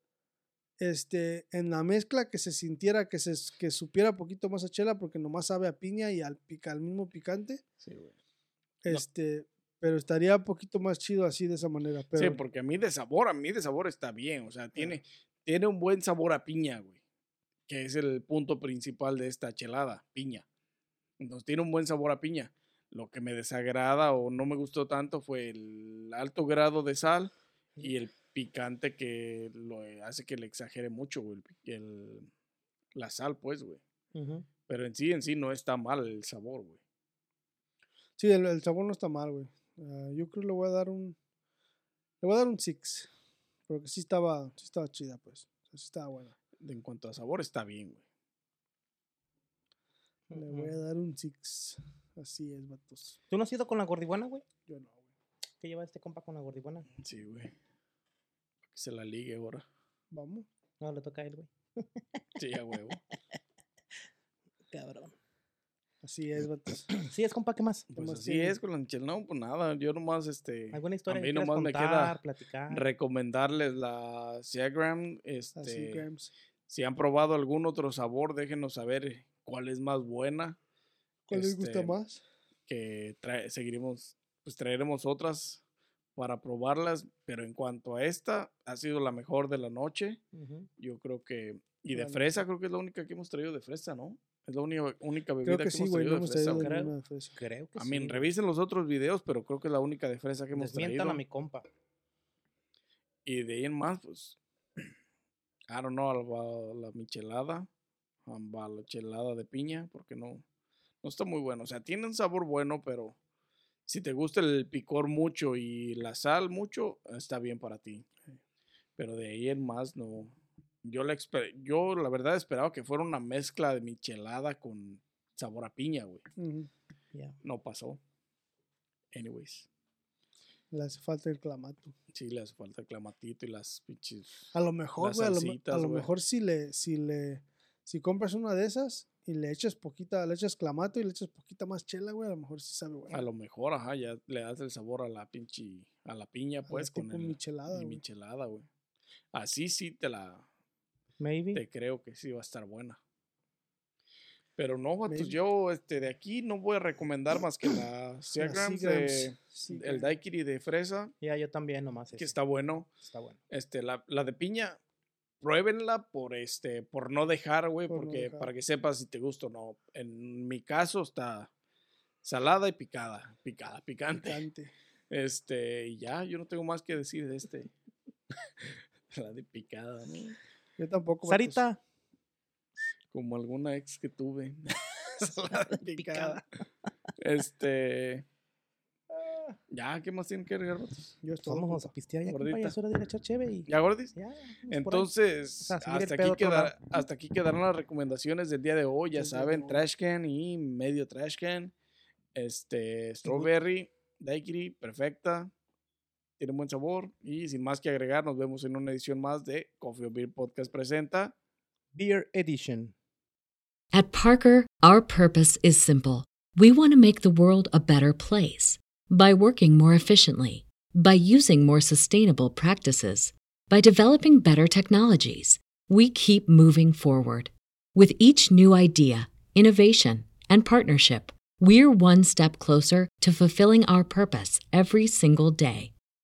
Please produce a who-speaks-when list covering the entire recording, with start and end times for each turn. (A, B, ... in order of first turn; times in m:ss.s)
0:00.8-0:07.6 A
0:07.8-0:08.2 B
0:08.8-0:12.4 A
0:12.1-0:17.0 B
0:17.7-0:20.4 B
0:21.2-0:32.3 B
0:32.9-0:33.8 B
0:34.1-0:34.4 C
0:34.7-0:36.8 B
0:38.2-0:41.2 A
0:42.2-0:43.1 A
0:43.7-0:46.3 A
0:46.6-0:48.0 B
0:50.3-0:50.7 C
0:50.3-0:53.2 A
0:53.3-0:54.4 C
0:54.7-0:55.1 A
0:55.6-0:56.9 C
0:57.0-0:57.5 B
0:58.7-0:59.6 B
1:00.1-1:00.5 A
1:00.8-1:02.2 C
1:02.4-1:03.0 B
1:04.7-1:05.1 C
1:06.0-1:06.9 A
1:06.9-1:07.9 C
1:07.9-1:12.2 B
1:07.9-1:08.6 A
1:10.7-1:12.8 C
1:12.7-1:16.1 B
1:15.6-1:16.3 A
1:16.7-1:20.6 B
1:21.3-1:22.2 A
1:21.3-1:22.0 B
1:22.7-1:25.6 B
1:26.2-1:30.2 B
1:30.3-1:30.7 C
1:30.8-1:36.7 B
1:31.9-1:32.4 A
1:35.4-1:37.4 A
1:36.6-1:38.2 C
1:37.8-1:41.2 B
1:40.5-1:41.6 C
1:43.2-1:44.8 B
1:45.7-1:47.7 B
1:48.2-1:50.4 B
1:51.0-1:53.1 B
1:53.9-1:58.0 B
1:59.0-2:06.2 B
2:06.4-2:06.7 A
2:07.4-2:08.0 B
2:09.1-2:09.7 B
2:10.7-2:11.9 A
2:12.1-2:16.1 B
2:14.5-2:23.3 A
2:23.1-2:28.7 B
2:26.7-2:28.0 A
2:29.3-2:30.4 B
2:31.2-2:31.6 C
2:31.5-2:33.0 B
2:34.6-2:41.1 B
2:35.1-2:35.4 A
2:38.4-2:40.1 A
2:41.2-2:42.4 C
2:42.1-2:42.9 B
2:43.0-2:43.4 C
2:43.5-2:44.8 B
2:45.4-2:51.5 B
2:47.9-2:48.5 A
2:52.2-2:54.4 B
2:54.2-2:54.7 A
2:55.1-2:57.7 B
2:58.6-3:00.4 B
3:00.8-3:01.6 A
3:01.3-3:01.8 C
3:03.1-3:06.4 B
3:05.5-3:06.4 C
3:07.2-3:08.2 B
3:09.1-3:09.6 C
3:09.7-3:11.1 B
3:11.2-3:11.9 A
3:11.4-3:15.1 C
3:12.3-3:12.8 B
3:13.7-3:14.1 B
3:14.7-3:21.7 B
3:15.6-3:16.8 C
3:19.1-3:19.8 A
3:22.3-3:25.5 B
3:23.2-3:23.5 C
3:26.4-3:31.3 B
3:31.9-3:32.9 C
3:33.9-3:55.9 D